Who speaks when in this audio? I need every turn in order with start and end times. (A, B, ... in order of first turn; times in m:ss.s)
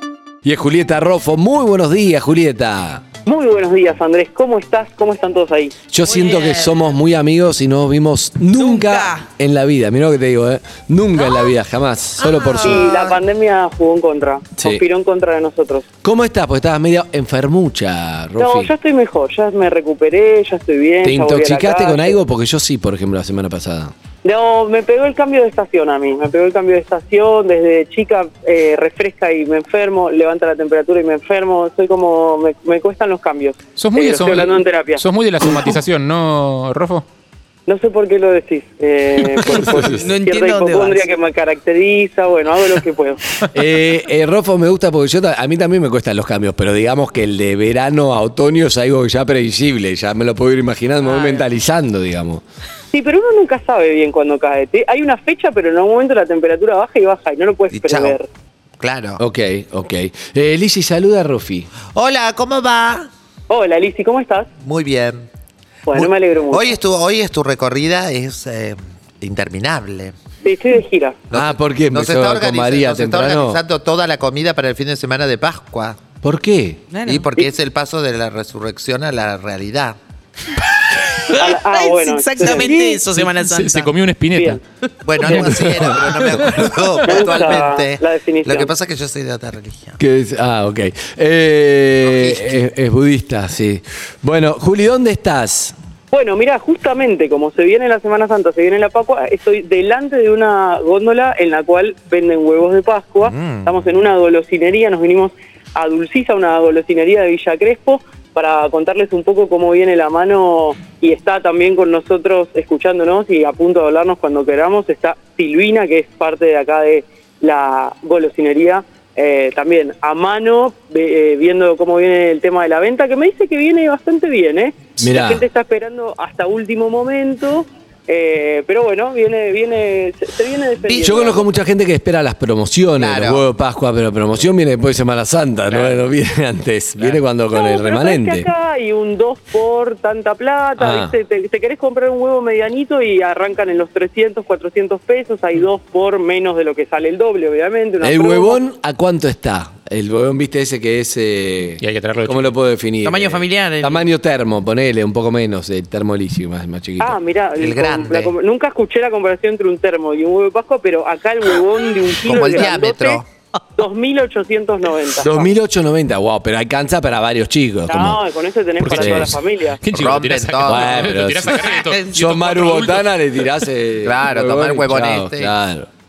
0:00.4-0:03.0 A
0:03.2-0:05.7 B
0:05.9-0:12.9 A
0:06.1-0:06.7 C
0:08.5-0:09.2 C
0:12.2-0:13.2 D
0:12.6-0:15.8 B
0:14.6-0:14.8 A
0:16.0-0:18.7 A
0:18.4-0:22.2 B
0:21.0-0:23.9 A
0:24.2-0:35.0 B
0:33.8-0:37.0 E
0:37.7-0:43.2 B
0:39.4-0:41.0 C
0:39.5-0:40.0 A
0:43.5-0:52.4 A
0:51.0-0:51.4 C
0:52.9-0:58.3 B
0:57.7-0:58.2 D
0:58.8-0:59.2 D
0:59.2-1:01.7 A
1:01.9-1:03.1 D
1:03.5-1:04.5 B
1:04.6-1:05.3 D
1:05.8-1:06.7 B
1:05.9-1:10.1 D
1:10.4-1:11.2 B
1:11.3-1:16.0 D
1:11.3-1:13.6 A
1:16.2-1:16.8 A
1:16.9-1:17.3 C
1:17.0-1:19.9 D
1:21.0-1:23.9 C
1:21.3-1:22.9 B
1:22.5-1:22.9 A
1:23.1-1:24.6 E
1:24.3-1:24.6 B
1:25.0-1:30.0 D
1:25.2-1:26.7 A
1:25.2-1:25.9 C
1:25.3-1:25.6 E
1:27.0-1:28.7 B
1:30.0-1:35.7 A
1:32.0-1:32.5 D
1:36.1-2:11.5 B
1:43.2-1:43.8 D
2:05.0-2:05.4 A
2:10.8-2:11.4 D
2:11.0-2:18.5 A
2:12.9-2:13.4 D
2:15.7-2:16.0 E
2:17.5-2:28.6 B
2:20.8-2:21.2 A
2:28.0-2:37.2 A
2:31.8-2:32.5 E
2:33.0-2:34.1 C
2:37.0-2:43.2 B
2:37.6-2:38.3 D
2:42.2-2:43.2 D
2:43.8-2:45.5 B
2:45.2-2:48.2 A
2:47.9-2:49.8 B
2:48.8-2:53.1 E
2:48.9-2:49.4 A
2:49.9-2:51.1 D
2:50.6-2:55.9 A
2:51.5-2:52.2 C
2:54.0-2:55.5 D